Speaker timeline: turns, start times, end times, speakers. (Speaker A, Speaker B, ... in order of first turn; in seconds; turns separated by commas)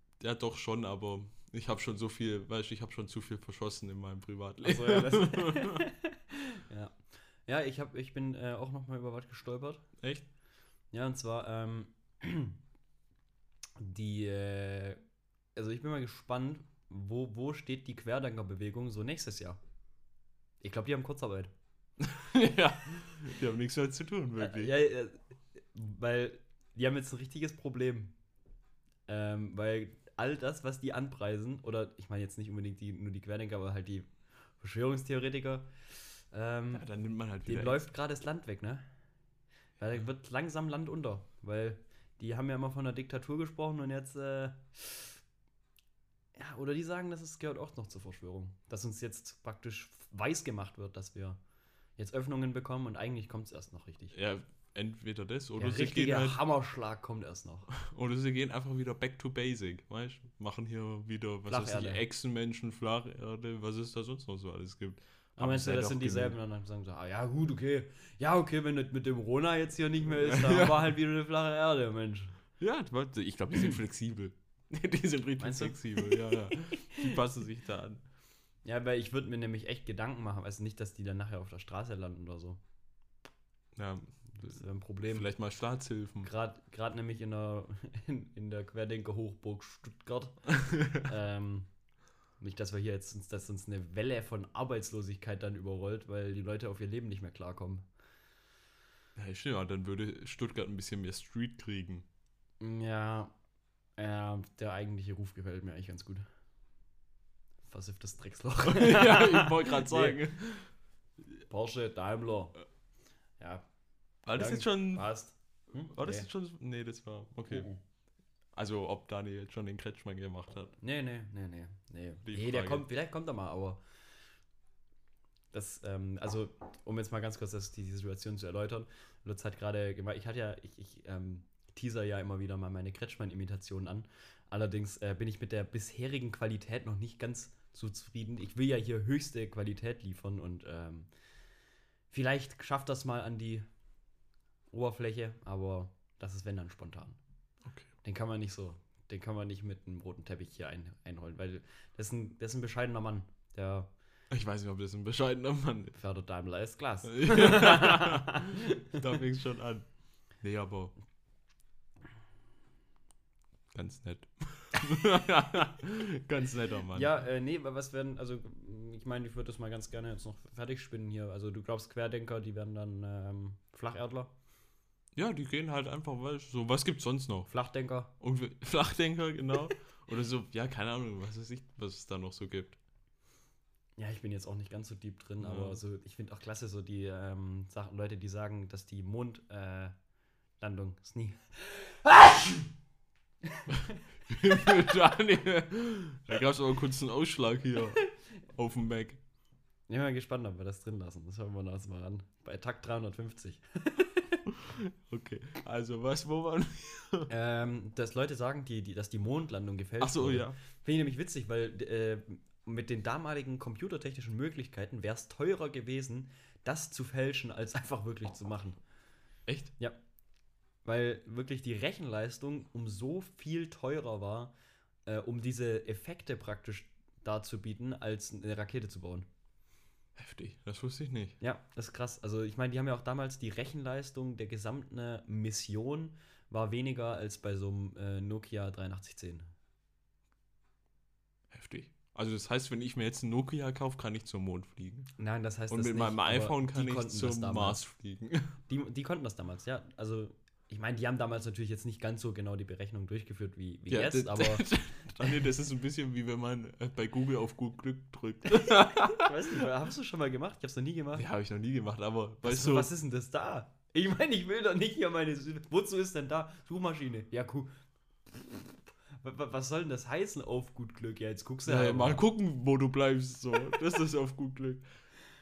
Speaker A: 0.2-5.8, Speaker B: 4.6-9.8, Speaker A: 10.0-10.2, Speaker B: 10.9-12.6, Speaker B: 13.8-15.0, Speaker B: 15.5-19.6, Speaker B: 20.6-21.5, Speaker A: 22.0-24.7, Speaker B: 24.4-25.2, Speaker B: 25.7-28.1, Speaker B: 29.1-34.1, Speaker B: 34.6-35.7, Speaker B: 36.3-36.9, Speaker A: 36.7-37.9, Speaker B: 37.4-38.8, Speaker B: 39.8-45.2, Speaker B: 46.4-51.4, Speaker B: 52.0-54.1, Speaker A: 54.1-56.4, Speaker B: 55.6-57.7, Speaker A: 57.7-66.4, Speaker B: 61.5-62.0, Speaker B: 65.4-72.4, Speaker A: 70.2-71.0, Speaker A: 72.6-78.0, Speaker B: 75.4-77.1, Speaker B: 78.6-82.6, Speaker A: 83.7-84.5, Speaker B: 84.3-85.3, Speaker A: 85.1-86.3, Speaker B: 86.2-91.7, Speaker A: 90.5-91.1, Speaker B: 92.4-97.8, Speaker A: 99.1-102.0, Speaker B: 102.6-103.3, Speaker B: 104.0-106.2, Speaker B: 107.7-110.2, Speaker A: 108.6-110.7, Speaker B: 111.5-112.5, Speaker B: 113.4-113.6, Speaker A: 114.2-115.1, Speaker B: 114.3-116.2, Speaker A: 115.9-117.7, Speaker B: 117.5-117.8, Speaker A: 118.5-120.7, Speaker B: 120.8-123.8, Speaker A: 122.2-122.8, Speaker B: 125.5-141.1, Speaker B: 142.1-143.6, Speaker B: 144.7-147.2, Speaker A: 147.6-147.9, Speaker B: 148.0-153.9, Speaker A: 154.3-155.9, Speaker B: 155.9-159.2, Speaker A: 157.0-159.8, Speaker A: 160.4-160.9, Speaker A: 163.7-167.1, Speaker B: 166.9-174.3, Speaker A: 175.1-177.5, Speaker B: 177.5-178.1, Speaker A: 178.2-182.8, Speaker B: 184.0-189.9, Speaker A: 185.4-185.8, Speaker B: 190.6-192.7, Speaker B: 193.5-193.8, Speaker A: 194.3-199.2, Speaker B: 199.9-204.4, Speaker A: 204.5-207.3, Speaker B: 207.3-218.8, Speaker A: 210.0-210.6, Speaker A: 219.4-219.7, Speaker B: 220.8-224.5, Speaker B: 225.1-229.3, Speaker A: 230.2-231.4, Speaker B: 231.4-239.4, Speaker A: 241.5-245.1, Speaker B: 245.2-247.8, Speaker A: 245.7-248.5, Speaker B: 248.7-255.4, Speaker A: 253.9-259.6, Speaker B: 258.6-261.2, Speaker A: 261.1-262.9, Speaker B: 262.4-267.7, Speaker B: 268.3-272.2, Speaker A: 271.6-274.8